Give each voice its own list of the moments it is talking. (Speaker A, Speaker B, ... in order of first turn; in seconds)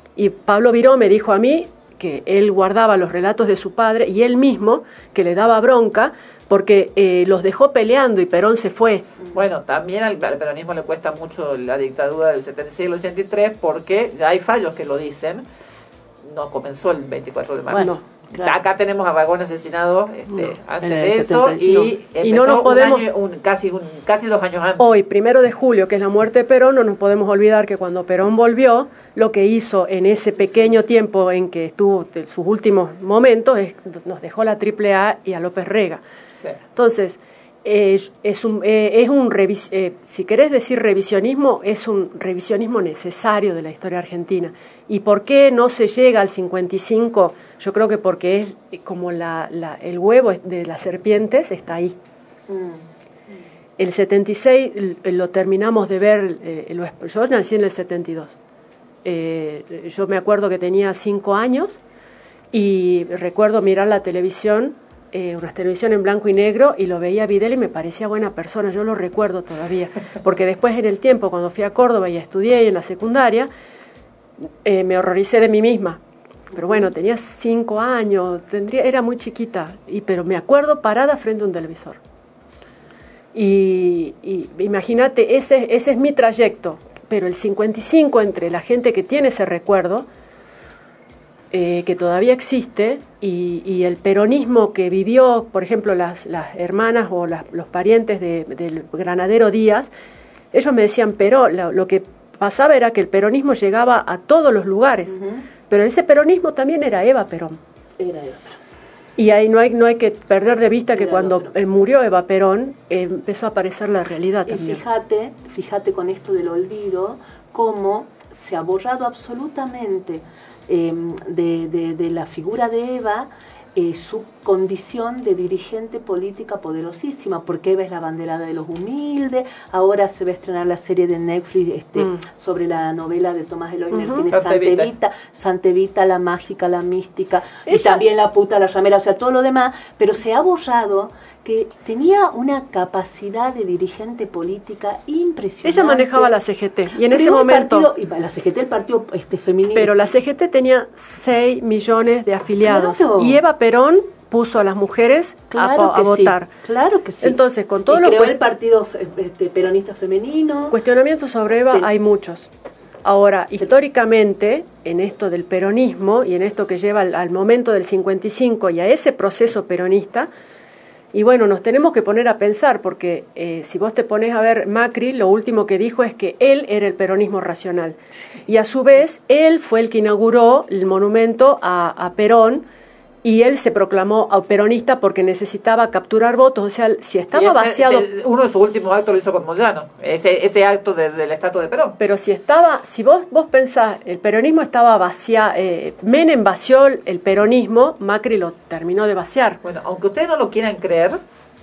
Speaker A: 0.1-9.1, 17.7-18.0, 22.2-23.1, 24.8-36.0, 36.7-52.0, 53.8-58.4, 59.0-61.8, 62.5-73.5, 74.6-76.0, 76.5-82.0, 83.3-90.0, 91.5-99.9, 100.5-105.2, 105.7-107.6, 109.2-114.8, 133.9-134.3, 137.7-138.0, 145.6-147.9, 149.7-156.5, 157.2-158.4, 160.7-162.5, 163.0-170.3, 171.1-182.6, 183.2-188.1, 192.0-199.6
Speaker B: 9.3-15.4, 16.2-24.9, 36.3-36.6, 134.3-134.9, 187.3-191.9, 199.6-201.2
Speaker C: 17.7-18.6, 20.8-21.9, 52.5-52.9, 105.1-105.5, 108.0-108.6, 110.9-111.5, 114.5-146.3, 147.0-150.0, 152.6-153.4, 155.5-160.8